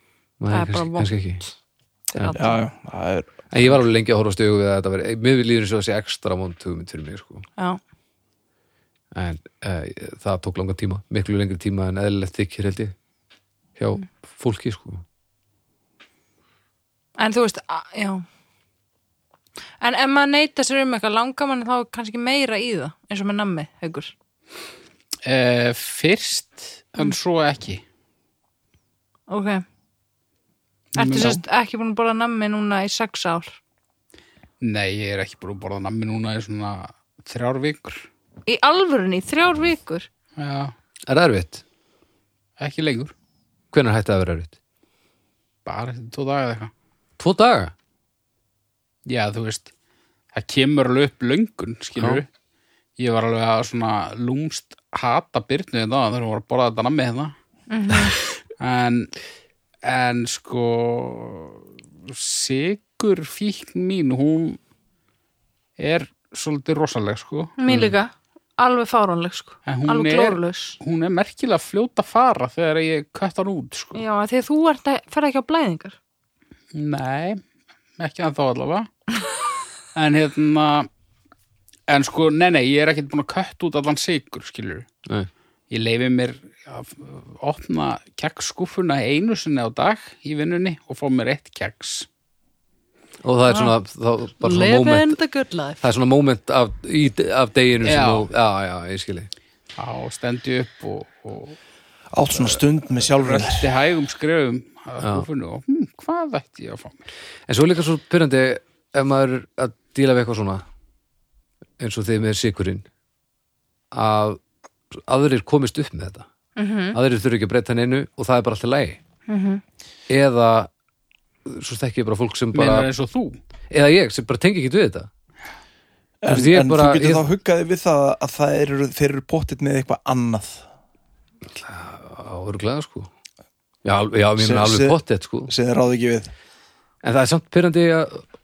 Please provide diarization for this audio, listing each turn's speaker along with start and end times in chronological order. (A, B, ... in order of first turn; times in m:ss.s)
0:00.4-0:01.4 A
0:00.5-0:01.5 B
0:02.1-0:02.6 B
0:02.3-0:03.8 C
0:03.5-0:07.4 A
0:09.1-0:12.9 A
0:13.8-0:15.0 A
0:17.2-0:18.2 B
0:19.8-0:24.1 B
0:25.2-0:27.8 D
0:29.3-0:29.6 B
0:30.9-0:31.4 D
0:31.0-0:33.6 B
0:34.6-0:38.1 D
0:38.4-0:40.1 B
0:40.4-0:40.7 D
0:41.1-0:41.6 A
0:42.6-0:43.1 D
0:43.7-0:44.5 A
0:45.6-0:46.7 D
0:47.2-0:47.7 A
0:49.0-0:49.7 D
0:50.3-0:52.3 D
0:52.0-0:52.2 A
0:53.0-0:57.3 D
0:57.7-0:58.1 B
0:58.6-0:59.1 D
0:59.8-1:04.6 D
1:05.8-1:07.6 D
1:07.6-1:10.8 B
1:09.6-1:14.0 D
1:13.9-1:16.0 B
1:16.7-1:17.4 D
1:18.0-1:18.9 D
1:19.9-1:20.9 D
1:21.9-1:24.9 D
1:25.7-1:32.1 D
1:33.2-1:35.2 A
1:33.5-1:33.7 B
1:34.4-1:35.8 B
1:35.8-1:39.3 A
1:37.8-1:38.3 D
1:39.8-1:41.6 D
1:42.1-1:43.7 C
1:42.3-1:47.0 D
1:45.0-1:45.3 A
1:47.5-1:50.6 A
1:51.8-1:52.8 A
1:53.9-1:54.4 A
1:54.9-1:56.2 A
1:56.6-1:57.0 B
1:56.9-1:59.0 A
1:59.3-1:59.6 B
2:00.1-2:00.7 A
2:01.5-2:02.9 A
2:02.5-2:03.4 D
2:03.7-2:05.1 A
2:06.2-2:10.6 C
2:06.3-2:07.2 A
2:11.5-2:13.1 A
2:13.8-2:15.5 A
2:14.4-2:16.3 C
2:17.0-2:18.2 A